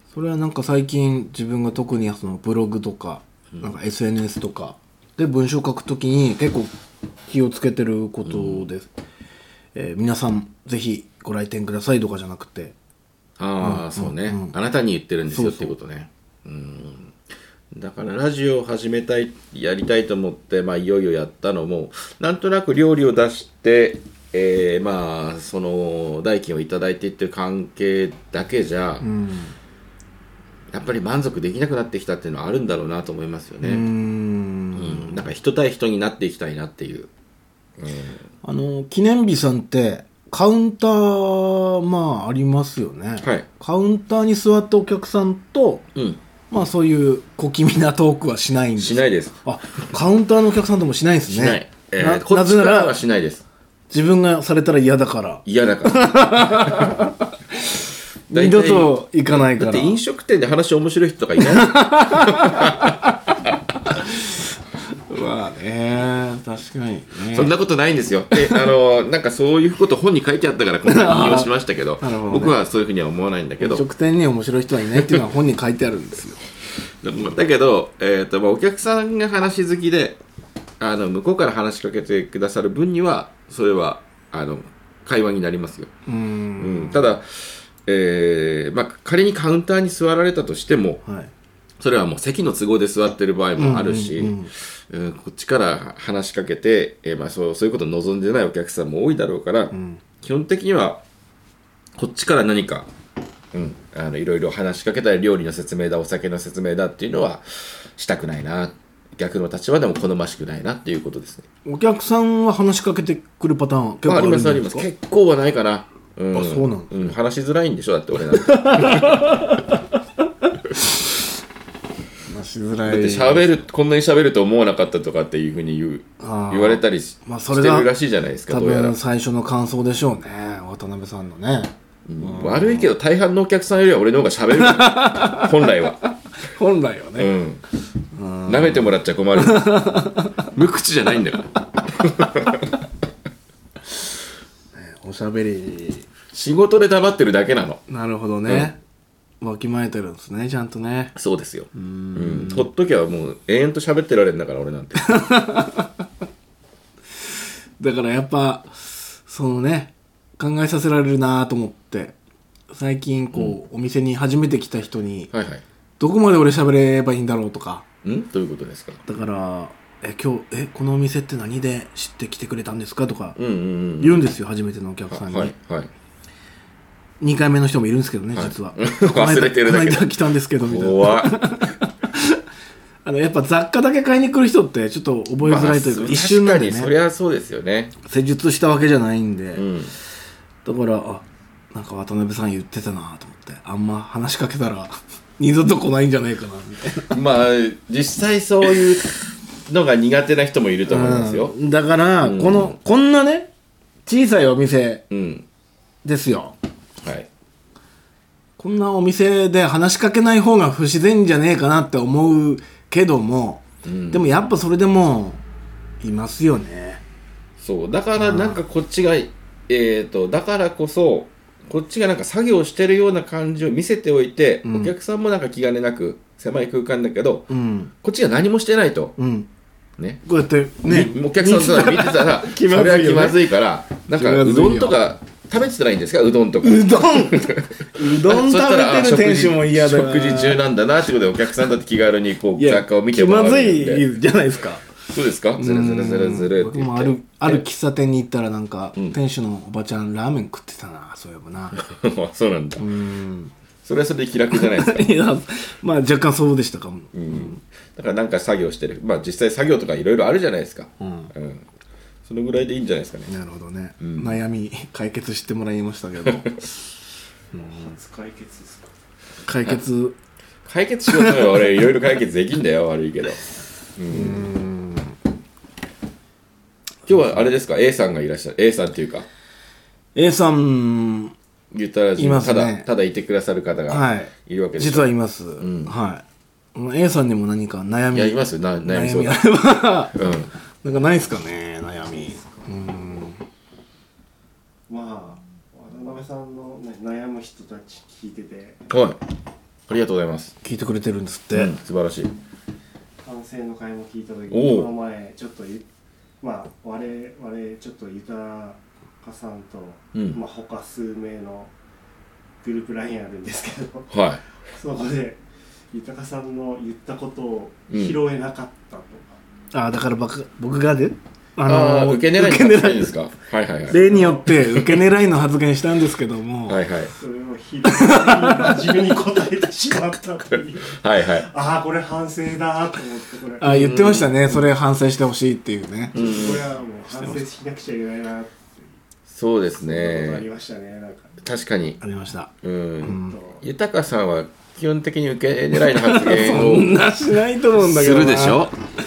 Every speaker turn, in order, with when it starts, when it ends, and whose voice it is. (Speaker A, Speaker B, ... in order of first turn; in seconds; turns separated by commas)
Speaker A: 0.1-6.7, Speaker A: 7.3-8.9, Speaker B: 8.2-8.7, Speaker A: 9.7-12.7, Speaker B: 13.4-17.1, Speaker A: 13.6-14.5, Speaker A: 15.3-15.7, Speaker B: 17.7-29.1, Speaker A: 29.0-29.5, Speaker B: 30.7-33.8, Speaker A: 33.6-35.2, Speaker B: 34.7-37.1, Speaker B: 37.8-38.2, Speaker A: 38.4-45.9, Speaker B: 43.2-43.5, Speaker B: 45.9-46.2, Speaker A: 46.5-53.0, Speaker B: 48.8-49.4, Speaker B: 51.3-53.4, Speaker A: 53.9-57.7, Speaker B: 55.4-56.9, Speaker A: 58.3-60.0, Speaker B: 58.3-63.0, Speaker A: 61.4-63.3, Speaker A: 63.8-67.5, Speaker B: 67.3-73.8, Speaker A: 70.8-72.6, Speaker A: 73.6-76.4, Speaker B: 74.9-75.2, Speaker B: 77.0-80.2, Speaker B: 80.8-85.9, Speaker A: 86.0-87.2, Speaker B: 86.6-91.0, Speaker A: 91.0-91.3, Speaker B: 91.8-101.0, Speaker A: 93.6-94.5, Speaker A: 99.7-100.0, Speaker B: 102.0-102.9, Speaker B: 103.5-111.5, Speaker A: 111.6-114.9, Speaker B: 114.0-119.3, Speaker A: 116.3-117.1, Speaker A: 118.3-119.7, Speaker A: 122.3-123.5, Speaker B: 122.8-128.9, Speaker A: 126.2-127.9, Speaker A: 128.5-132.9, Speaker B: 132.1-136.0, Speaker A: 134.5-137.3, Speaker B: 137.2-137.6, Speaker A: 138.1-140.4, Speaker B: 138.5-142.6, Speaker A: 144.7-146.1, Speaker B: 146.3-147.8, Speaker A: 147.9-148.8, Speaker B: 148.5-148.7, Speaker A: 149.4-151.1, Speaker B: 151.1-155.1, Speaker A: 151.7-152.7, Speaker A: 155.0-156.0, Speaker A: 157.8-162.2, Speaker A: 162.7-165.3, Speaker B: 165.3-165.6, Speaker A: 166.0-167.8, Speaker B: 168.0-169.0, Speaker A: 169.1-173.4, Speaker B: 173.3-174.2, Speaker A: 174.0-175.5, Speaker B: 175.1-175.9, Speaker A: 177.2-182.4, Speaker B: 178.3-180.1, Speaker B: 180.6-181.4, Speaker A: 183.0-186.9, Speaker B: 185.4-187.9, Speaker A: 188.0-189.7, Speaker B: 189.5-189.9, Speaker A: 190.6-197.2, Speaker B: 197.1-199.1, Speaker B: 199.7-201.5, Speaker A: 200.9-203.5, Speaker B: 202.2-202.8, Speaker A: 204.1-205.0, Speaker B: 205.1-205.4, Speaker A: 206.0-206.6, Speaker B: 207.0-207.3, Speaker A: 208.6-215.4, Speaker B: 213.8-214.3, Speaker A: 216.0-217.0, Speaker B: 217.6-227.5, Speaker A: 218.2-218.6, Speaker A: 224.6-224.9, Speaker A: 227.5-227.9, Speaker B: 228.0-229.2, Speaker A: 229.2-229.5, Speaker A: 230.2-233.4, Speaker B: 230.8-244.1, Speaker A: 234.1-235.0, Speaker A: 236.6-240.6, Speaker A: 242.6-244.9, Speaker B: 245.1-247.6, Speaker A: 245.6-251.8, Speaker B: 251.7-252.9, Speaker A: 252.8-253.5, Speaker B: 253.8-255.1, Speaker A: 254.5-257.6, Speaker B: 257.1-261.6, Speaker A: 261.0-261.3, Speaker B: 262.2-263.3, Speaker A: 263.3-266.7, Speaker B: 264.0-264.4, Speaker B: 266.2-266.5, Speaker A: 267.5-267.9, Speaker C: 267.6-268.9, Speaker A: 269.4-270.1, Speaker B: 270.6-273.4, Speaker A: 271.1-271.7, Speaker B: 273.9-274.5, Speaker A: 274.1-275.1, Speaker B: 277.1-279.3, Speaker A: 280.1-281.3, Speaker B: 281.7-285.9, Speaker A: 282.2-282.9, Speaker A: 283.9-286.2, Speaker A: 286.7-290.1, Speaker B: 288.1-289.4, Speaker B: 290.1-290.5, Speaker A: 290.8-293.4, Speaker C: 292.3-292.6, Speaker C: 294.9-298.8, Speaker B: 298.9-299.2, Speaker B: 299.9-300.5, Speaker A: 300.6-301.8, Speaker B: 301.5-302.3, Speaker C: 303.2-305.9, Speaker B: 304.5-304.9, Speaker C: 306.4-311.7, Speaker B: 310.1-310.4, Speaker C: 312.6-319.4, Speaker B: 314.1-314.4, Speaker B: 317.9-318.2, Speaker A: 319.7-323.1, Speaker B: 321.6-324.1, Speaker C: 323.9-324.5, Speaker A: 323.9-326.8, Speaker B: 326.7-327.1, Speaker C: 327.1-333.9, Speaker A: 327.9-328.9, Speaker B: 330.9-331.5, Speaker A: 333.6-336.2, Speaker B: 333.6-334.6, Speaker B: 336.1-336.7, Speaker C: 336.1-338.9, Speaker A: 337.1-337.4, Speaker B: 339.3-340.4, Speaker C: 339.7-341.4, Speaker B: 341.4-342.0, Speaker A: 342.0-342.5, Speaker B: 342.6-347.0, Speaker A: 343.0-343.4, Speaker C: 343.2-343.6, Speaker A: 345.9-348.7, Speaker B: 347.8-348.7